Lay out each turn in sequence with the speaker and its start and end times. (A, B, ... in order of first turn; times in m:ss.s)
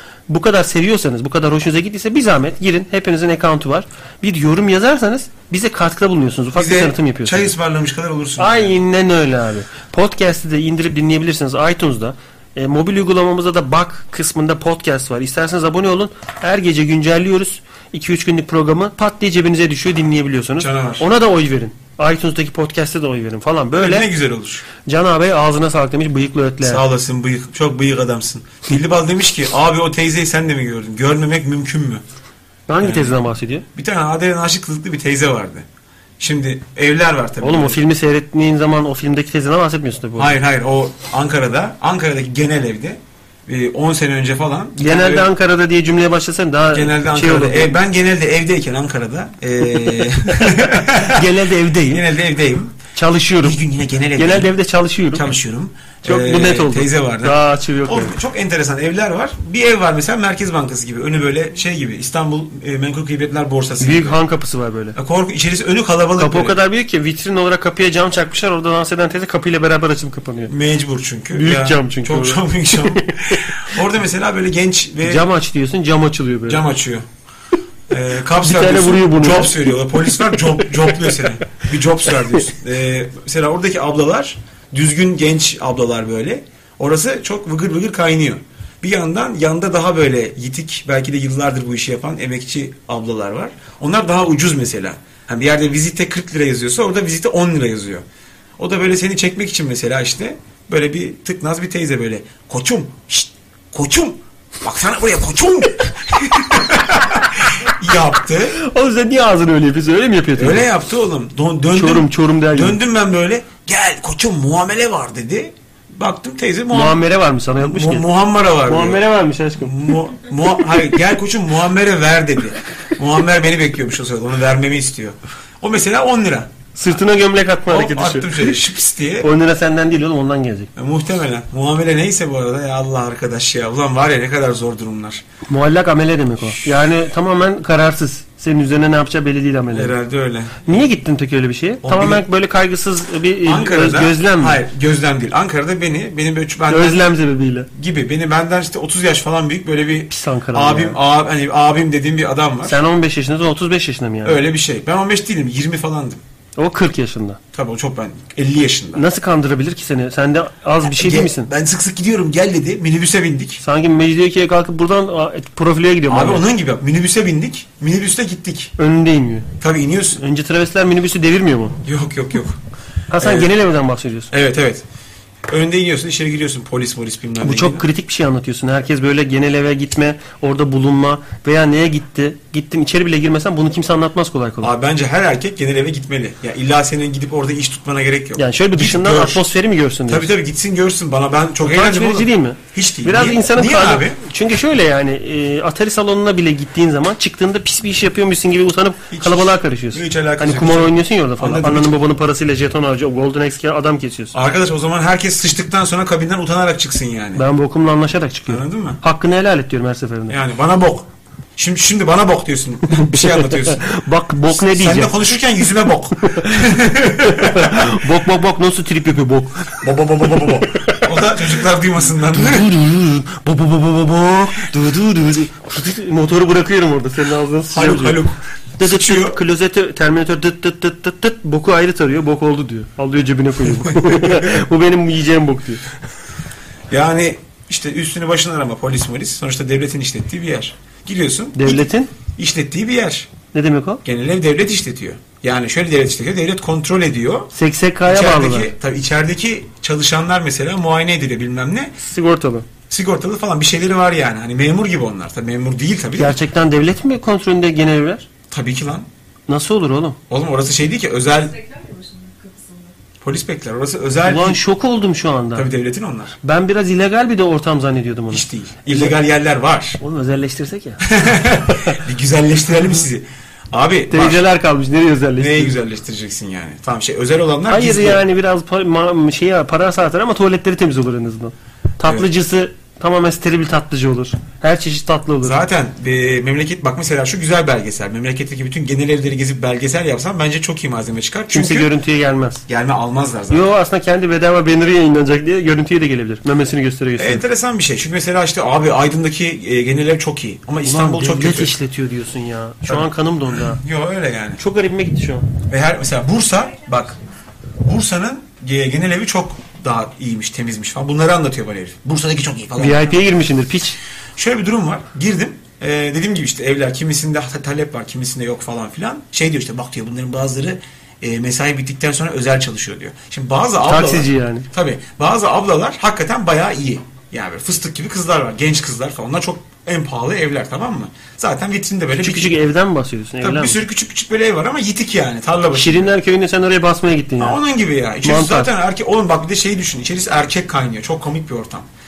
0:00.3-0:07.5 A
0:06.6-0:08.8 B
0:08.4-0:24.1 A
0:20.6-0:21.0 B
0:23.7-0:24.6 B
0:24.8-0:26.8 A
0:26.6-0:32.0 B
0:32.7-0:33.7 A
0:32.8-0:33.2 B
0:33.8-0:35.7 B
0:36.2-0:37.8 B
0:37.4-0:40.4 A
0:40.2-0:45.3 B
0:44.8-0:47.8 A
0:46.7-0:52.8 B
0:49.8-0:52.1 A
0:53.0-0:53.6 A
0:53.4-0:54.5 B
0:54.2-0:55.3 A
0:55.1-1:04.2 B
0:56.0-0:58.2 A
1:03.8-1:05.0 A
1:05.0-1:06.6 B
1:06.2-1:10.5 A
1:10.5-1:15.3 B
1:11.3-1:13.6 A
1:15.0-1:16.6 A
1:16.5-1:17.1 B
1:17.9-1:38.0 B
1:18.4-1:20.4 A
1:38.6-1:48.6 B
1:48.6-1:50.7 A
1:50.4-1:57.0 B
1:51.7-1:52.8 A
1:56.7-1:58.1 A
1:57.6-1:59.0 B
1:58.6-1:59.8 A
1:59.6-2:06.5 B
2:06.8-2:08.6 A
2:07.7-2:09.3 B
2:09.2-2:10.7 A
2:10.8-2:15.2 B
2:15.5-2:20.0 A
2:19.7-2:20.9 B
2:20.6-2:24.6 A
2:21.8-2:22.2 B
2:23.4-2:27.1 B
2:26.7-2:27.7 A
2:27.7-2:32.8 B
2:30.1-2:31.0 A
2:32.6-2:34.4 A
2:34.2-2:36.2 B
2:36.6-2:37.4 A
2:37.5-2:39.0 B
2:39.0-2:41.5 A
2:40.8-2:43.6 B
2:43.6-2:46.4 A
2:46.1-2:48.7 B
2:48.8-2:49.5 A
2:49.6-2:50.2 B
2:50.2-2:51.8 A
2:51.8-2:52.6 B
2:53.1-2:54.3 A
2:53.2-2:53.5 B
2:54.3-2:54.8 B
2:55.5-2:57.8 B
2:57.4-3:04.7 A
3:04.6-3:09.5 B
3:08.4-3:10.3 A
3:10.1-3:14.2 B
3:11.6-3:24.4 A
3:19.1-3:22.0 B
3:24.3-3:27.4 B
3:27.4-3:30.4 A
3:28.5-3:29.0 B
3:30.3-3:33.9 B
3:33.0-3:35.3 A
3:34.5-3:38.0 B
3:36.2-3:39.8 A
3:39.8-3:42.7 B
3:40.4-3:41.4 A
3:42.2-3:48.2 A
3:47.7-3:49.4 B
3:48.8-3:55.9 A
3:53.8-3:54.6 B
3:56.9-4:03.3 B
4:01.6-4:02.1 A
4:03.5-4:04.0 A
4:04.0-4:07.5 B
4:07.5-4:08.7 A
4:08.1-4:12.0 B
4:12.0-4:12.7 A
4:12.9-4:16.4 B
4:16.2-4:18.3 A
4:18.5-4:19.1 B
4:19.5-4:20.2 A
4:20.3-4:21.7 B
4:23.2-4:24.6 B
4:24.2-4:25.7 A
4:25.6-4:26.4 B
4:26.4-4:29.2 A
4:28.3-4:30.0 B
4:30.0-4:31.1 A
4:31.0-4:34.5 B
4:31.7-4:32.0 A
4:34.1-4:35.8 A
4:35.4-4:38.2 B
4:37.7-4:45.6 A
4:45.4-4:51.9 B
4:51.5-4:52.6 A
4:52.7-4:53.7 B
4:53.5-4:57.4 A
4:57.2-5:01.8 B
5:00.8-5:03.8 A
5:02.9-5:04.6 B
5:04.6-5:05.5 A
5:05.7-5:07.2 B
5:07.8-5:13.2 B
5:12.8-5:14.0 A
5:14.4-5:32.6 B
5:23.8-5:24.7 A
5:32.2-5:33.8 A
5:33.4-5:36.1 B
5:35.7-5:37.6 A
5:37.4-5:41.9 B
5:38.2-5:38.7 A